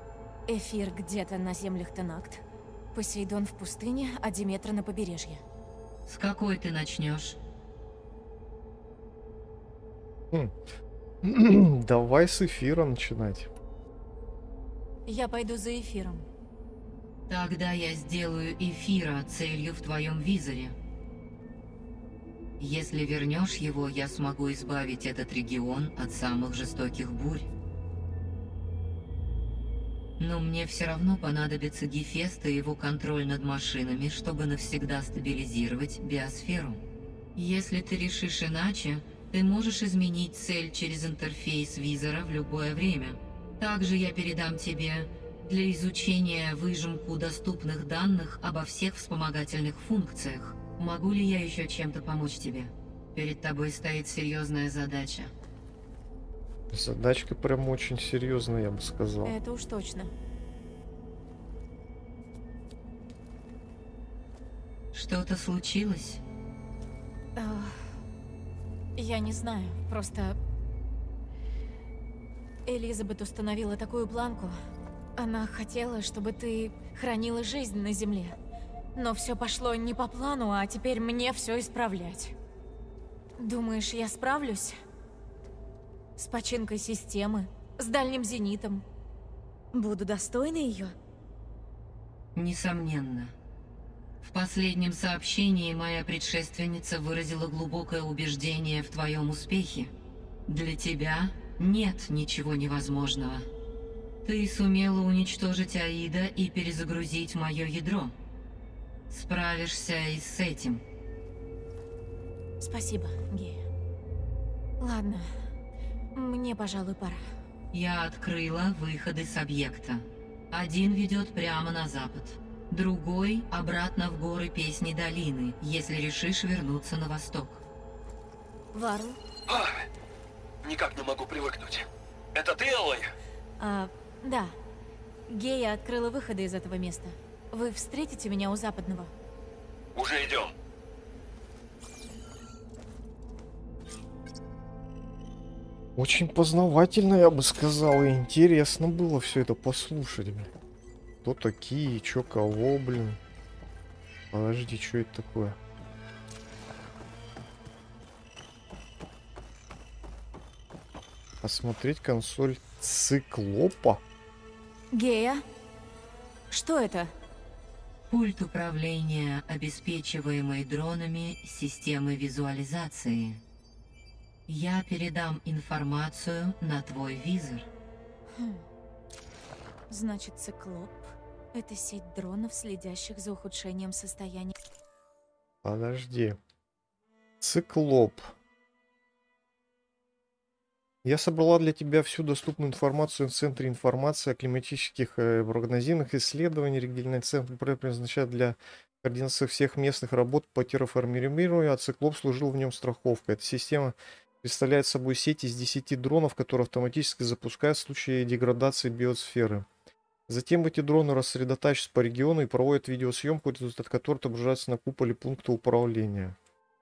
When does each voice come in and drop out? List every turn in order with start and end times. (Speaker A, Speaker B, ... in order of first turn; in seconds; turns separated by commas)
Speaker A: 0.5-5.4, Speaker B: 6.0-7.4, Speaker C: 11.2-13.5, Speaker A: 15.1-16.3, Speaker B: 17.3-20.8, Speaker B: 22.6-27.5, Speaker B: 30.2-36.8, Speaker B: 37.4-55.3, Speaker C: 56.7-59.3, Speaker A: 59.2-60.1, Speaker B: 64.9-66.2, Speaker A: 67.4-67.8, Speaker A: 69.0-70.4, Speaker A: 72.7-74.5, Speaker A: 75.2-78.4, Speaker A: 79.0-82.3, Speaker A: 83.4-84.8, Speaker A: 86.2-88.8, Speaker A: 89.7-91.0, Speaker B: 92.3-93.3, Speaker B: 94.2-99.9, Speaker B: 100.5-103.5, Speaker B: 104.2-108.1, Speaker B: 109.1-110.8, Speaker A: 112.6-113.6, Speaker A: 114.8-115.3, Speaker A: 116.1-117.3, Speaker B: 117.7-127.6, Speaker A: 128.7-129.2, Speaker D: 129.5-129.8, Speaker D: 130.6-133.1, Speaker A: 133.6-134.5, Speaker A: 135.3-139.1, Speaker D: 139.9-140.5, Speaker C: 145.9-150.5, Speaker C: 151.2-153.2, Speaker C: 154.3-155.6, Speaker C: 161.4-164.0, Speaker A: 164.9-165.4, Speaker A: 166.5-167.1, Speaker B: 168.1-173.4, Speaker B: 174.5-177.7, Speaker A: 178.3-178.6, Speaker A: 179.9-184.6, Speaker C: 185.6-186.4, Speaker C: 187.4-188.3, Speaker C: 191.0-209.7, Speaker C: 210.3-216.4